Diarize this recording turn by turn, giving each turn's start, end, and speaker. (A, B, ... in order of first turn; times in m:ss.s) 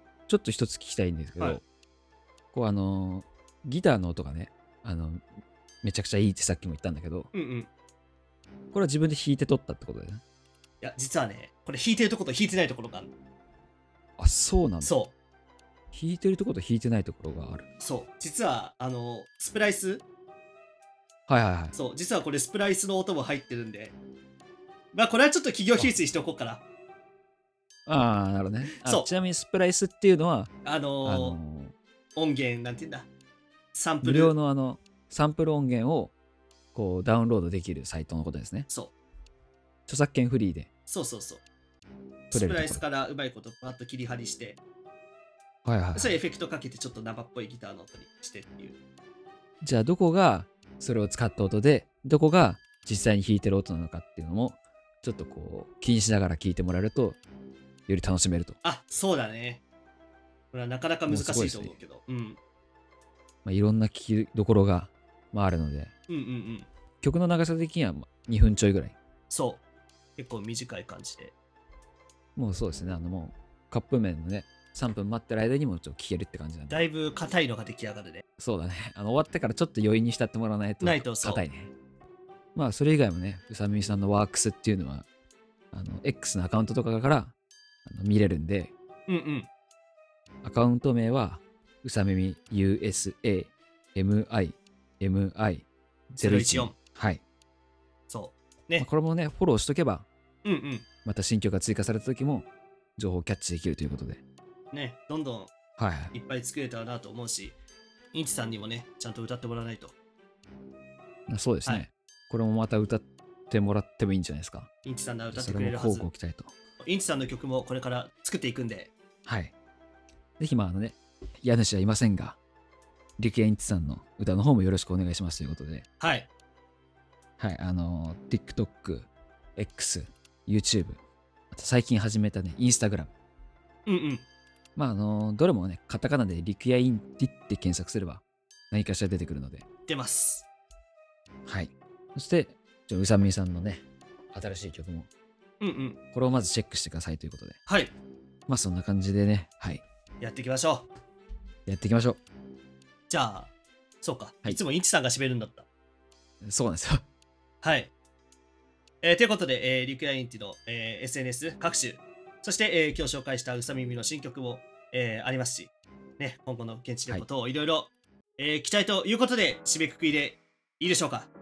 0:00.3-0:01.6 A
0:02.5-0:05.2 A
0:05.8-0:07.3 A
0:07.3-0:07.7 B
0:08.7-0:10.2 A
0:10.8-0:13.1 B
0:14.2-0:15.0 A
0:14.8-0:15.1 B
0:15.9-0:17.7 A
0:17.8-0:20.0 B
0:21.3-0:21.7 A
0:21.7-0:23.9 B
0:24.9-0:26.6 B
0:27.9-0:30.5 A
0:28.6-0:29.1 B
0:30.6-0:31.4 B
0:31.0-0:31.7 A
0:32.2-0:33.1 B
0:33.7-0:34.3 B
0:34.0-0:36.1 A
0:36.7-0:38.7 A
0:38.7-0:38.9 B
0:39.9-0:40.7 A
0:40.9-0:41.4 B
0:42.3-0:44.6 B
0:42.3-0:42.8 A
0:45.6-0:46.2 A
0:45.9-0:48.8 B
0:49.6-0:57.2 A
0:57.9-0:58.6 A
0:58.6-0:59.6 B
1:00.5-1:02.4 B
1:01.1-1:01.7 A
1:03.4-1:05.9 A
1:06.1-1:06.7 B
1:07.0-1:09.0 A
1:09.3-1:09.6 B
1:10.2-1:11.3 B
1:12.4-1:16.8 A
1:16.7-1:18.2 B
1:18.4-1:21.7 A
1:20.8-1:21.4 B
1:22.5-1:25.1 A
1:25.7-1:28.7 A
1:29.1-1:29.5 B
1:30.4-1:37.2 A
1:36.2-1:36.7 B
1:38.1-1:38.8 B
1:38.8-1:40.0 A
1:40.4-1:40.8 B
1:41.0-1:44.2 A
1:44.7-1:45.5 B
1:45.8-1:46.1 A
1:46.1-1:47.6 B
1:48.1-1:49.9 B
1:51.3-1:54.7 A
1:54.8-1:56.0 B
1:55.3-1:56.5 A
1:56.8-1:58.9 B
1:59.2-1:59.5 A
2:00.4-2:02.4 A
2:03.2-2:05.8 A
2:06.0-2:06.3 B
2:07.4-2:11.0 A
2:11.5-2:13.1 A
2:13.8-2:14.2 B
2:14.8-2:19.6 A
2:19.9-2:20.4 B
2:21.4-2:25.1 A
2:25.6-2:26.0 B
2:26.1-2:27.6 A
2:27.6-2:27.9 B
2:28.5-2:29.8 A
2:30.2-2:30.9 B
2:31.7-2:32.2 A
2:33.1-2:35.6 B
2:36.4-2:37.0 A
2:37.6-2:37.9 B
2:39.0-2:51.3 B